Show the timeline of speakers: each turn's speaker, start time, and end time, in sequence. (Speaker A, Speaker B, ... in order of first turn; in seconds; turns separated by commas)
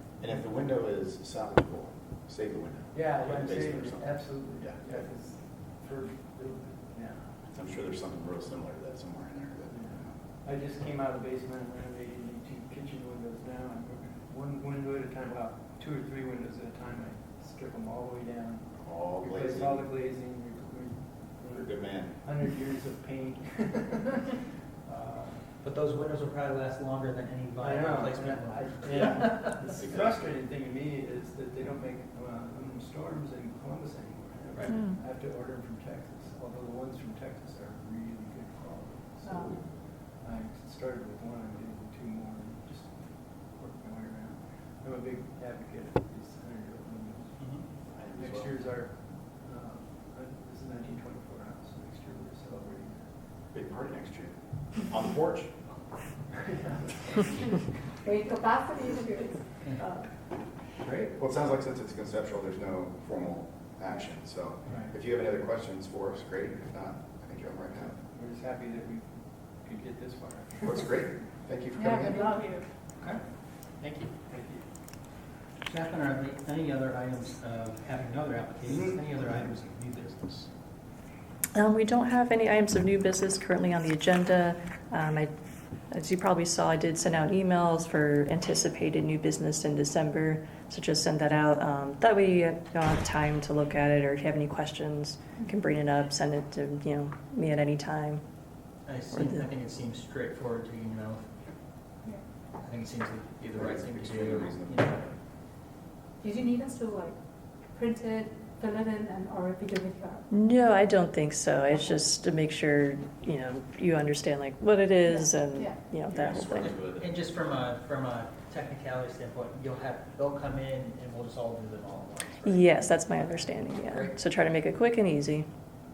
Speaker A: 0.2-5.0, Speaker B: 2.9-7.2, Speaker A: 7.5-10.1, Speaker B: 9.8-18.7, Speaker A: 18.8-19.8, Speaker B: 19.2-24.3, Speaker A: 21.5-22.2, Speaker B: 24.8-25.5, Speaker C: 25.6-29.8, Speaker B: 27.6-39.6, Speaker A: 28.9-30.2, Speaker C: 34.5-34.8, Speaker D: 34.7-35.0, Speaker A: 39.3-39.6, Speaker B: 40.1-47.3, Speaker A: 47.9-48.6, Speaker B: 48.2-53.1, Speaker A: 53.5-55.5, Speaker B: 56.3-57.5, Speaker B: 58.0-59.9, Speaker C: 60.8-61.1, Speaker A: 61.1-68.0, Speaker B: 68.1-69.1, Speaker B: 69.6-70.6, Speaker A: 70.6-72.5, Speaker B: 71.9-72.6, Speaker C: 73.8-74.1, Speaker B: 74.3-74.6, Speaker C: 75.7-80.5, Speaker D: 81.5-85.3, Speaker D: 85.9-98.2, Speaker C: 98.8-101.3, Speaker C: 102.6-105.1, Speaker A: 103.5-105.0, Speaker E: 106.2-107.1, Speaker E: 107.8-110.2, Speaker D: 110.3-116.7, Speaker A: 116.1-117.1, Speaker C: 116.5-124.2, Speaker D: 122.4-125.5